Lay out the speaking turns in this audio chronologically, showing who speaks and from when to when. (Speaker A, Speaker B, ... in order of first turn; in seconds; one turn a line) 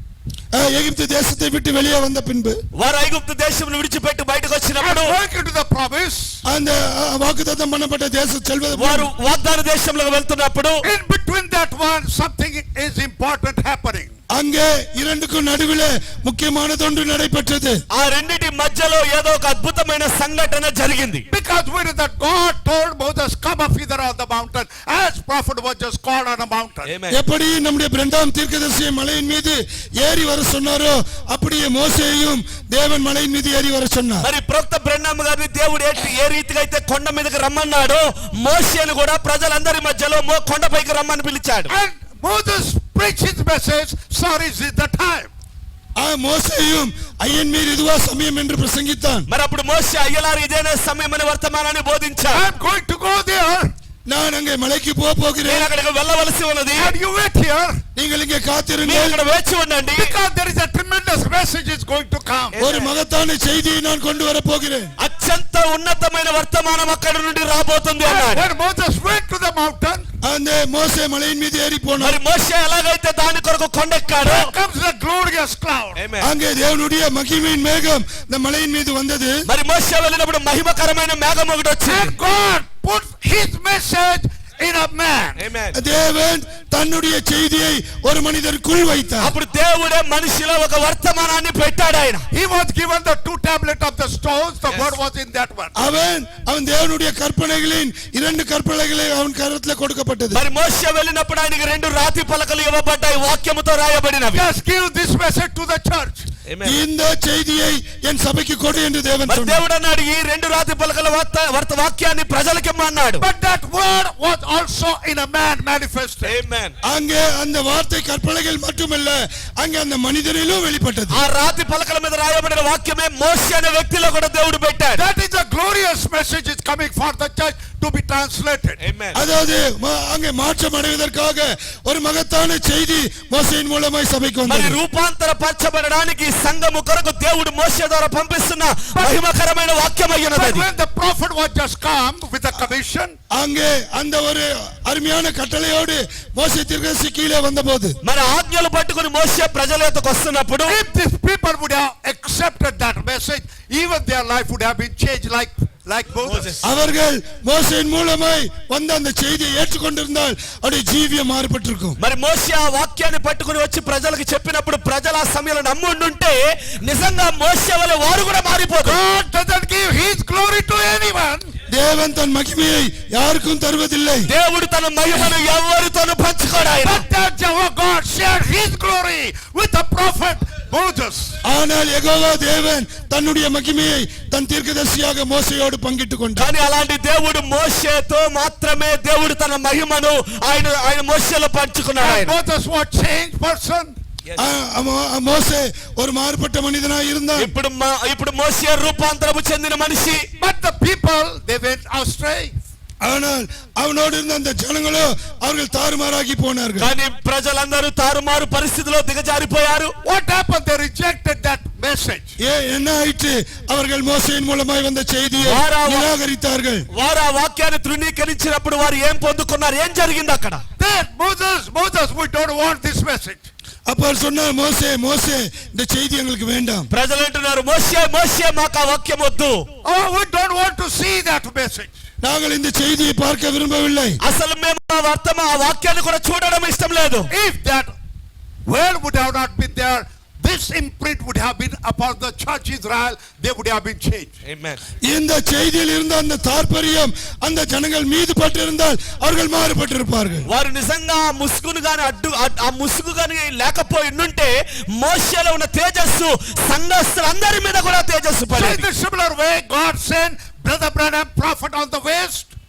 Speaker A: 0.5-2.6
Speaker B: 2.7-5.1
Speaker C: 4.8-6.4
Speaker A: 6.5-9.1
Speaker B: 8.7-10.8
Speaker C: 10.8-14.1
Speaker A: 14.3-17.8
Speaker B: 17.9-21.2
Speaker C: 21.3-26.9
Speaker B: 26.9-27.2
Speaker A: 27.1-34.3
Speaker B: 34.2-41.7
Speaker C: 41.7-45.3
Speaker A: 46.0-49.3
Speaker B: 49.3-52.5
Speaker C: 52.3-53.7
Speaker A: 54.1-55.7
Speaker B: 55.5-57.0
Speaker C: 56.8-57.8
Speaker A: 58.0-59.2
Speaker B: 58.8-60.1
Speaker C: 60.0-62.6
Speaker B: 62.5-62.9
Speaker A: 62.6-64.9
Speaker B: 65.0-68.5
Speaker C: 68.0-70.0
Speaker A: 70.2-72.2
Speaker B: 72.0-74.5
Speaker C: 74.2-76.0
Speaker B: 76.0-76.3
Speaker A: 76.2-79.4
Speaker B: 79.4-82.1
Speaker C: 81.8-85.4
Speaker B: 85.4-85.8
Speaker A: 85.7-89.3
Speaker B: 89.2-92.2
Speaker C: 92.3-95.7
Speaker A: 95.8-100.4
Speaker B: 100.3-104.4
Speaker C: 104.3-106.3
Speaker B: 106.5-106.8
Speaker A: 106.6-109.6
Speaker B: 109.2-113.2
Speaker C: 113.2-116.3
Speaker B: 116.2-116.7
Speaker A: 116.8-121.2
Speaker B: 121.1-125.0
Speaker C: 124.9-128.8
Speaker B: 128.8-129.2
Speaker A: 129.1-134.8
Speaker B: 134.5-140.7
Speaker C: 138.9-139.2
Speaker C: 140.3-143.2
Speaker A: 143.3-148.0
Speaker B: 148.0-150.8
Speaker C: 150.7-156.5
Speaker B: 156.3-156.6
Speaker A: 156.6-162.0
Speaker B: 162.0-169.0
Speaker C: 168.8-171.5
Speaker A: 171.7-174.3
Speaker B: 174.3-177.0
Speaker C: 176.8-181.4
Speaker A: 181.4-186.5
Speaker B: 186.4-192.3
Speaker C: 192.0-193.9
Speaker A: 194.4-197.5
Speaker B: 197.4-200.2
Speaker C: 200.4-202.5
Speaker A: 203.0-206.9
Speaker B: 206.8-209.9
Speaker C: 210.0-212.3
Speaker A: 212.4-216.9
Speaker B: 215.4-216.1
Speaker B: 216.9-220.6
Speaker C: 220.8-223.5
Speaker A: 223.9-226.9
Speaker B: 226.9-229.7
Speaker C: 229.8-231.9
Speaker A: 232.2-234.2
Speaker B: 234.2-237.3
Speaker C: 237.3-237.9
Speaker C: 238.7-244.3
Speaker B: 244.5-244.8
Speaker A: 245.1-250.5
Speaker B: 250.5-258.8
Speaker C: 258.5-262.5